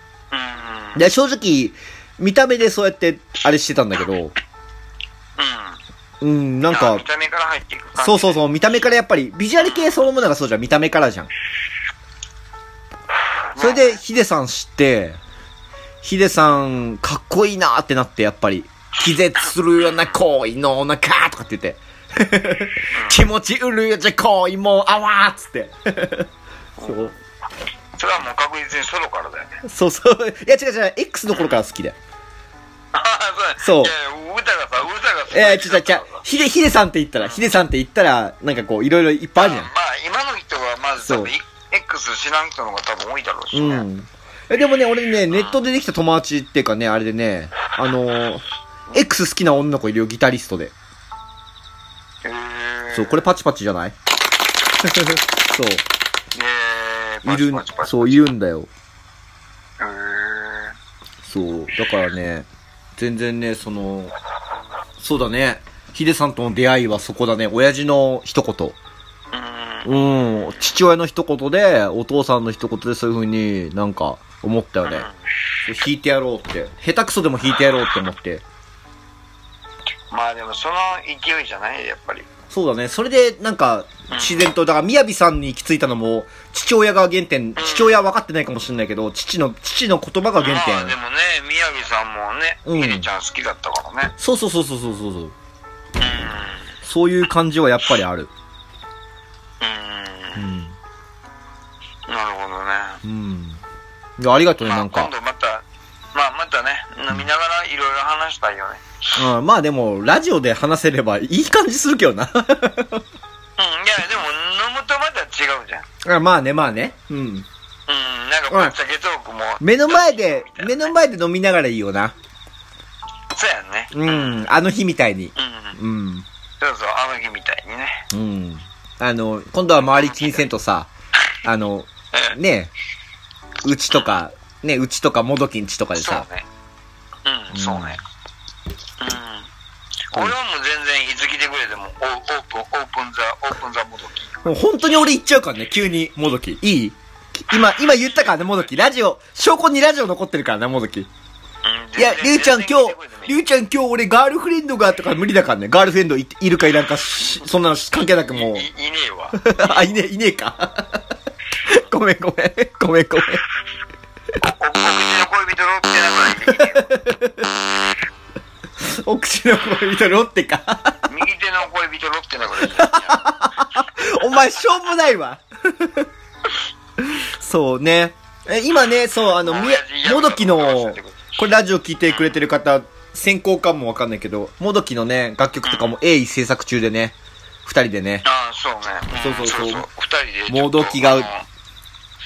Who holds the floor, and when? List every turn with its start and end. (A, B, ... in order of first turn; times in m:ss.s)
0:00.3-0:01.0 A
0:00.9-0:04.3 B
0:05.4-0:05.8 A
0:06.2-0:07.0 B
0:06.7-0:08.4 A
0:08.0-0:11.3 B
0:09.6-0:10.1 A
0:13.5-0:14.0 A
0:13.6-0:15.2 B
0:16.0-0:26.3 B
0:19.8-0:20.2 A
0:22.9-0:23.2 A
0:26.8-0:27.2 A
0:26.8-0:27.1 B
0:28.0-0:29.6 A
0:29.6-0:32.0 B
0:31.3-0:31.6 A
0:32.9-0:36.2 A
0:33.6-0:33.9 B
0:35.3-0:39.7 B
0:37.2-0:37.6 A
0:39.4-0:43.8 A
0:41.0-0:41.3 B
0:43.5-0:50.7 B
0:45.3-0:45.6 A
0:52.2-0:53.2 A
0:52.9-0:53.9 B
0:54.8-0:55.8 B
0:56.3-0:58.3 A
0:57.2-0:58.7 B
0:59.8-1:00.7 A
1:01.2-1:04.1 B
1:05.0-1:08.8 B
1:09.3-1:10.6 A
1:09.8-1:15.1 B
1:14.8-1:15.2 A
1:15.6-1:18.4 B
1:20.1-1:22.3 A
1:22.5-1:30.9 B
1:24.1-1:24.5 A
1:27.6-1:28.0 A
1:30.4-1:34.1 A
1:32.6-1:33.1 B
1:34.2-1:35.3 B
1:36.0-1:36.7 A
1:36.8-1:38.3 B
1:39.6-1:40.4 A
1:40.3-1:40.8 B
1:42.1-1:43.0 A
1:43.0-1:43.6 B
1:44.2-1:45.1 B
1:44.6-1:49.2 A
1:49.2-1:53.0 B
1:53.6-1:55.8 A
1:56.0-1:57.4 B
1:57.9-2:00.9 A
1:59.6-2:02.1 B
2:03.3-2:04.5 A
2:03.9-2:06.2 B
2:05.4-2:05.8 A
2:06.6-2:08.0 A
2:08.1-2:10.9 B
2:09.7-2:10.5 A
2:11.4-2:12.7 B
2:13.6-2:16.3 B
2:13.9-2:14.2 A
2:15.9-2:16.5 A
2:17.2-2:18.0 A
2:17.5-2:18.0 B
2:19.0-2:19.5 A
2:20.1-2:24.4 A
2:24.4-2:31.1 B
2:27.9-2:28.7 A
2:31.6-2:33.4 A
2:32.0-2:38.6 B
2:38.0-2:39.9 A
2:39.4-2:41.0 B
2:41.6-2:43.4 B
2:44.4-2:46.9 A
2:46.5-2:47.4 B
2:48.8-2:51.0 B
2:51.1-2:53.4 A
2:52.7-2:56.1 B
2:57.0-3:08.2 B
2:59.4-3:01.5 A
3:02.1-3:02.4 A
3:05.6-3:06.0 A
3:08.2-3:11.5 A
3:09.2-3:09.8 B
3:10.5-3:11.3 B